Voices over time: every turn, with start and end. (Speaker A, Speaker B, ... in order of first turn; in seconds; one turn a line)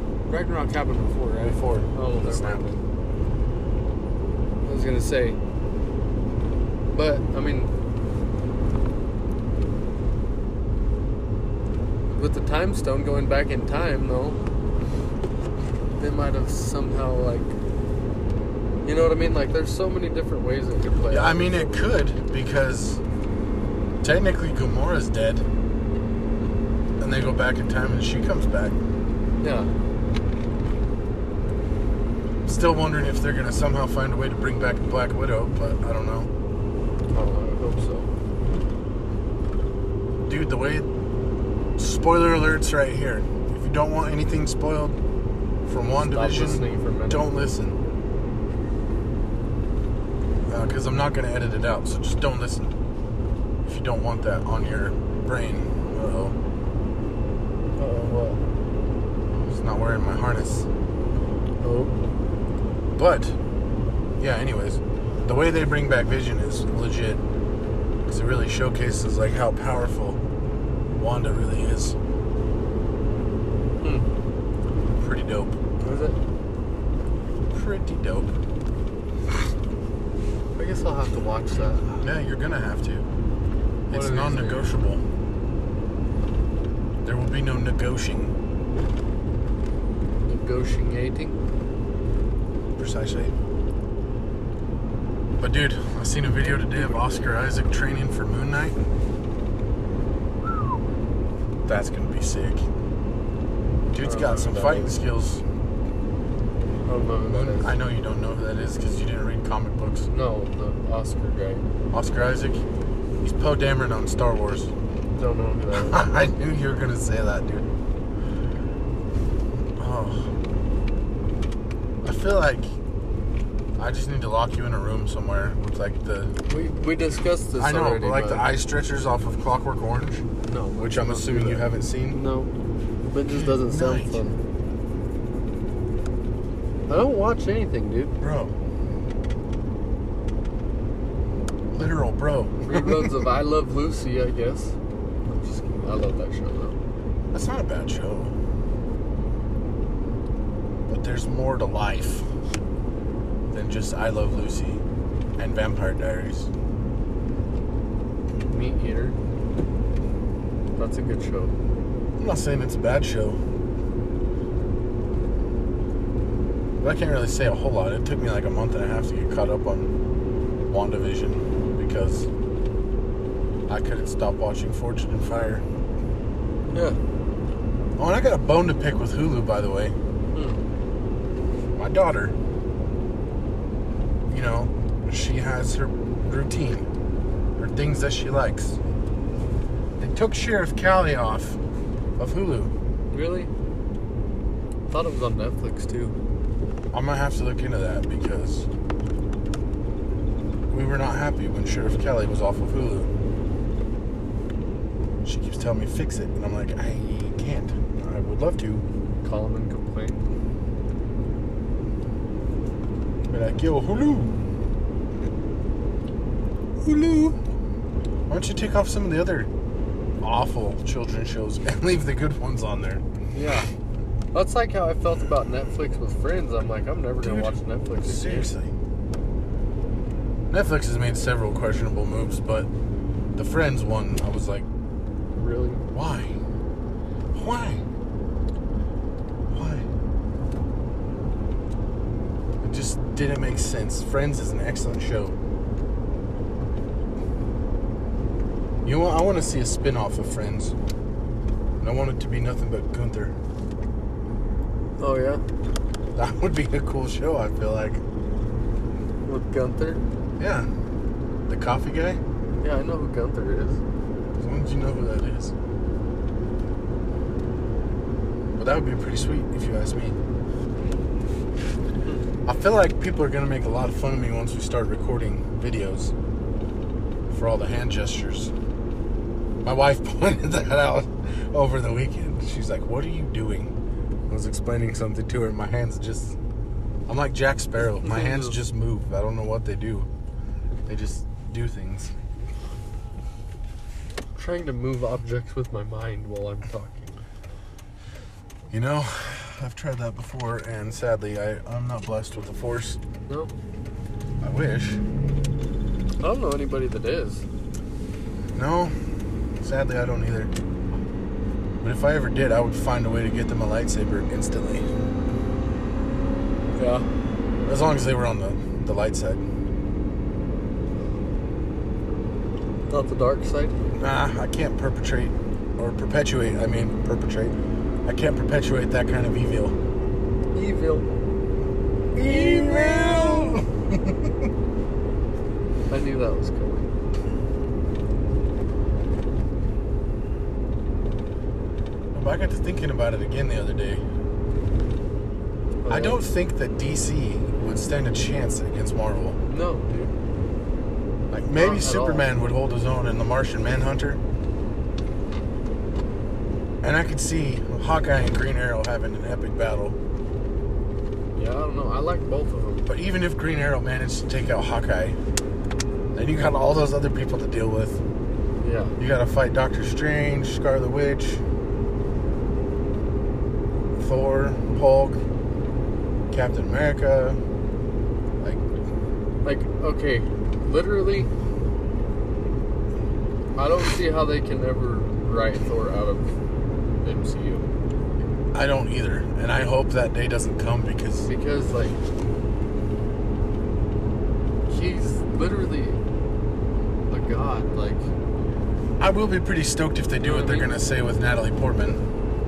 Speaker A: 0.3-2.8
Speaker B: 1.4-2.7
Speaker A: 4.6-5.4
Speaker A: 6.9-7.7
Speaker A: 12.1-14.4
Speaker A: 16.0-17.5
Speaker A: 18.9-22.0
Speaker B: 21.1-23.0
Speaker B: 24.0-25.4
Speaker B: 27.0-28.8
Speaker A: 29.4-29.7
Speaker B: 32.5-36.3
Speaker A: 37.1-38.1
Speaker B: 40.3-40.9
Speaker B: 41.8-45.0
Speaker B: 45.7-47.8
Speaker A: 45.9-47.3
Speaker B: 50.5-52.8
Speaker B: 53.6-56.4
Speaker A: 57.8-58.4
Speaker B: 59.3-60.7
Speaker A: 61.6-61.9
Speaker B: 63.0-63.4
Speaker B: 64.2-67.2
Speaker B: 68.1-70.2
Speaker B: 71.0-72.0
Speaker A: 73.8-74.1
Speaker B: 75.0-75.8
Speaker A: 75.8-76.2
Speaker B: 77.5-78.3
Speaker A: 80.6-81.9
Speaker B: 82.0-83.1
Speaker B: 83.9-85.0
Speaker A: 83.9-84.7
Speaker B: 87.0-88.3
Speaker A: 90.3-91.4
Speaker B: 92.8-93.3
Speaker B: 95.4-98.8
Speaker A: 96.4-97.3
Speaker B: 101.7-102.7
Speaker B: 103.9-105.4
Speaker A: 104.0-105.0
Speaker A: 106.9-107.8
Speaker B: 107.2-110.1
Speaker A: 110.1-111.6
Speaker B: 111.9-112.6
Speaker B: 113.2-114.7
Speaker A: 115.2-116.1
Speaker B: 115.7-117.7
Speaker B: 119.8-120.3
Speaker B: 122.0-122.7
Speaker B: 123.8-126.3
Speaker A: 126.5-128.5
Speaker B: 127.6-130.2
Speaker A: 130.5-132.5
Speaker B: 130.8-132.2
Speaker A: 133.1-134.4
Speaker B: 133.3-134.2
Speaker A: 136.9-138.2
Speaker B: 138.2-138.5
Speaker B: 141.7-143.2
Speaker A: 142.7-146.8
Speaker B: 147.3-148.3
Speaker B: 150.9-152.3
Speaker B: 153.5-154.8
Speaker B: 155.4-156.5
Speaker A: 158.5-159.2
Speaker A: 160.8-161.5
Speaker B: 162.2-163.4
Speaker B: 166.8-169.9
Speaker B: 170.7-172.3
Speaker B: 173.7-175.6
Speaker A: 176.7-177.0
Speaker B: 178.0-179.9
Speaker A: 180.3-180.6
Speaker B: 181.8-182.3
Speaker B: 184.3-186.9
Speaker B: 187.6-188.8
Speaker B: 190.0-191.6
Speaker B: 192.2-192.7
Speaker A: 193.1-193.5
Speaker A: 194.9-196.2
Speaker B: 196.9-198.7
Speaker B: 200.7-203.1
Speaker B: 205.2-208.8
Speaker A: 209.2-210.2
Speaker B: 213.3-214.3
Speaker B: 216.8-217.4
Speaker B: 218.3-219.5
Speaker B: 220.2-223.0
Speaker A: 223.3-223.7
Speaker A: 224.3-228.5
Speaker B: 227.2-228.7
Speaker B: 230.5-232.7
Speaker B: 233.3-234.7
Speaker A: 235.4-235.8
Speaker B: 235.9-236.4
Speaker B: 237.3-237.8
Speaker B: 239.5-239.9
Speaker B: 242.6-245.4
Speaker B: 248.8-250.8
Speaker B: 251.8-253.3
Speaker A: 255.0-255.4
Speaker B: 256.1-258.0
Speaker A: 259.2-260.0
Speaker B: 260.4-260.7
Speaker B: 261.5-262.2
Speaker A: 262.6-263.8
Speaker B: 264.4-265.5
Speaker B: 268.6-270.2
Speaker B: 272.5-276.1
Speaker B: 277.3-278.5
Speaker B: 279.6-283.8
Speaker B: 284.3-286.4
Speaker B: 287.1-290.1
Speaker A: 287.9-288.6
Speaker B: 290.9-292.1
Speaker A: 294.4-297.1
Speaker B: 298.7-303.0
Speaker B: 304.4-305.0
Speaker A: 306.2-307.4
Speaker B: 308.5-308.9
Speaker B: 309.6-310.5
Speaker B: 311.8-314.9
Speaker A: 316.8-317.1
Speaker B: 317.6-319.4
Speaker A: 322.9-323.8
Speaker B: 324.0-327.6
Speaker B: 328.1-329.8
Speaker A: 330.5-331.1
Speaker B: 332.1-334.3
Speaker A: 332.2-333.6
Speaker A: 335.9-336.9
Speaker B: 342.1-344.0
Speaker A: 345.8-346.2
Speaker B: 345.9-349.4
Speaker A: 349.5-350.1
Speaker B: 351.3-354.2
Speaker A: 351.6-352.3
Speaker B: 356.8-360.0
Speaker A: 361.4-362.9
Speaker B: 362.9-365.2
Speaker B: 366.1-368.0
Speaker A: 368.6-369.0
Speaker B: 369.0-371.4
Speaker B: 374.0-375.2
Speaker B: 376.3-377.4
Speaker A: 379.4-381.3
Speaker A: 383.6-386.3
Speaker A: 387.0-387.7
Speaker B: 388.5-391.3
Speaker A: 391.3-392.0
Speaker A: 394.7-396.0
Speaker A: 397.1-398.1
Speaker B: 399.0-402.0
Speaker A: 400.2-400.8